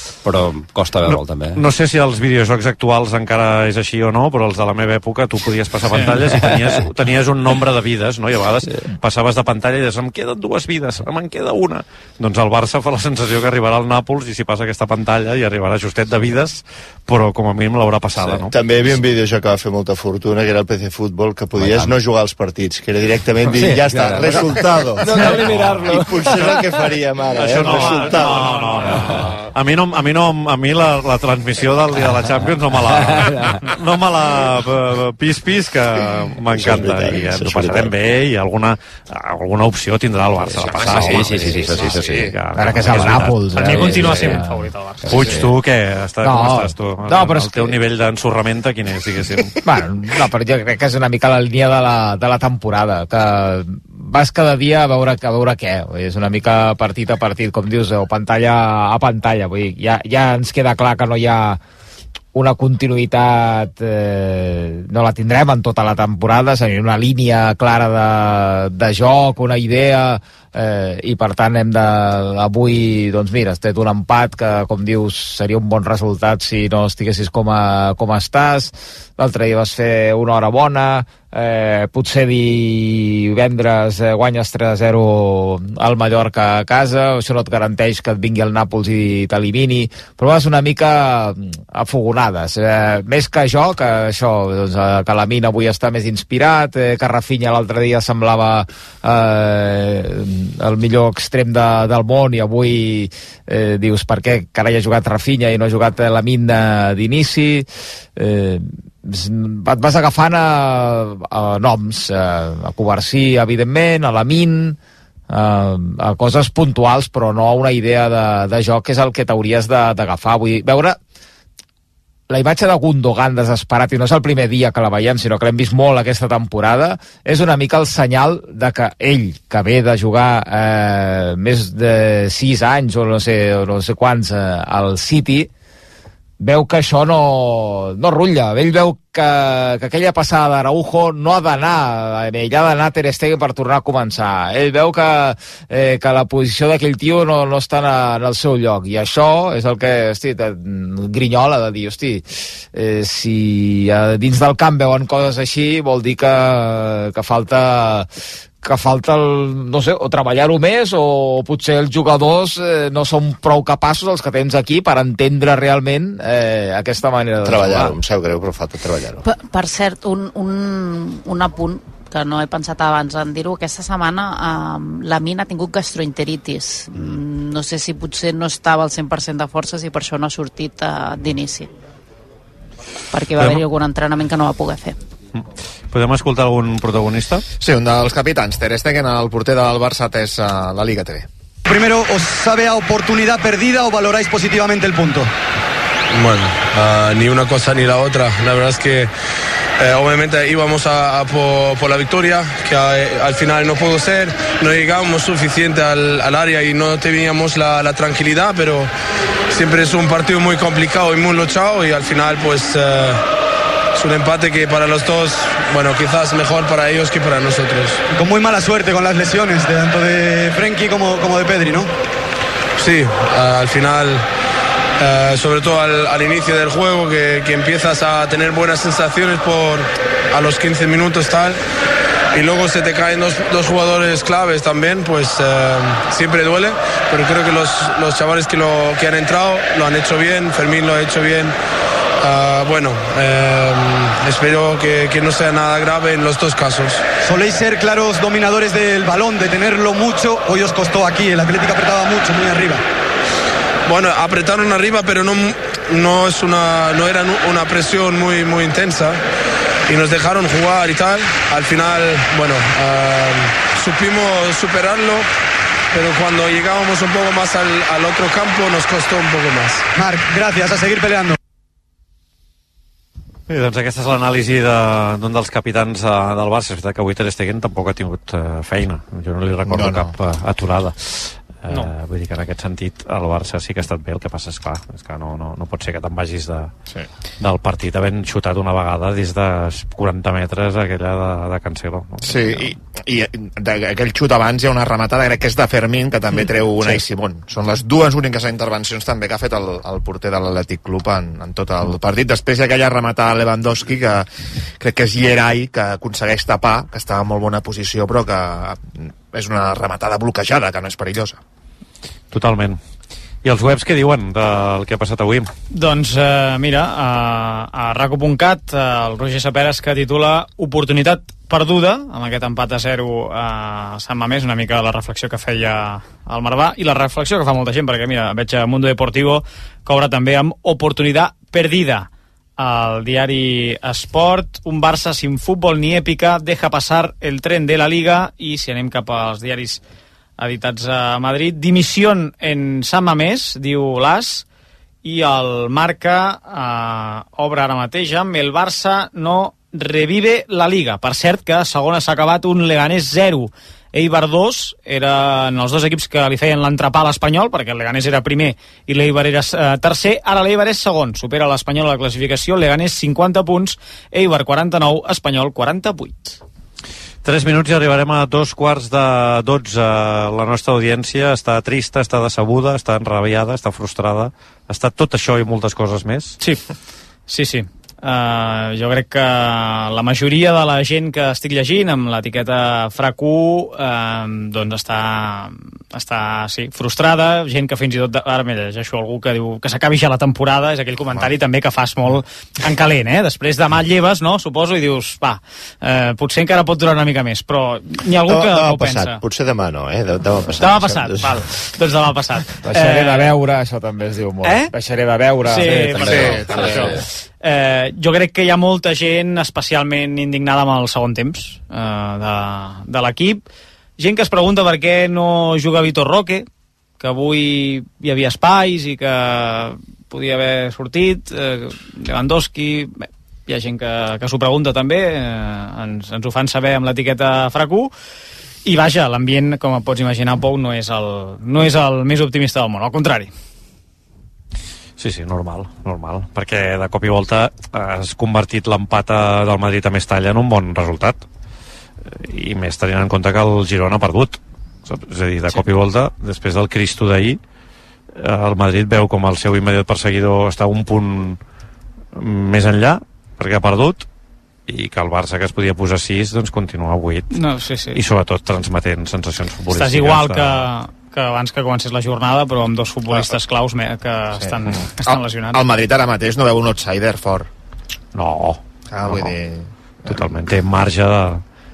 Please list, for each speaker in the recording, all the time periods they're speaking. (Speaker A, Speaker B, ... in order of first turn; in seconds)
Speaker A: 0.2-1.6, 21.6-21.9, 23.5-24.5, 25.1-25.9, 40.6-44.2, 45.1-45.4
Speaker B: 1.1-18.5, 25.3-25.9, 27.4-44.2, 45.1-49.5, 183.4-183.6, 185.4-187.4, 273.5-286.7, 287.4-292.7, 312.3-312.8, 313.4-315.5, 367.2-376.4, 435.0-441.2, 442.1-447.4, 448.2-451.4, 452.1-454.1, 454.7-460.7, 468.1-469.4, 470.1-471.4
Speaker C: 18.5-28.6, 36.5-38.0, 167.4-169.2, 398.2-401.4
Speaker D: 40.8-42.3, 187.6-191.3, 279.7-280.1, 292.2-304.3, 304.8-311.4, 405.7-407.0, 464.4-467.5, 468.9-470.3
Speaker E: 42.5-44.6, 46.2-47.8, 49.6-61.6, 62.3-114.8, 115.3-121.0, 122.3-135.5, 136.4-158.1, 158.6-168.0, 402.7-406.8
Speaker F: 43.5-45.2, 315.7-339.8, 340.4-344.4, 345.0-366.4, 377.3-399.2, 400.6-403.3, 404.4-404.7, 405.4-413.4, 414.0-416.5, 417.0-427.9, 428.6-433.3, 457.3-458.0, 459.7-465.6
Speaker G: 169.2-181.7, 183.1-185.0
Speaker H: 191.7-195.3, 218.1-221.9, 247.2-252.8, 269.9-271.4
Speaker I: 196.1-199.1, 199.8-208.9, 209.5-213.2, 213.9-218.0, 222.8-224.2, 225.0-231.6, 232.3-241.6, 242.2-247.0, 253.9-259.2, 259.9-265.3, 265.9-269.9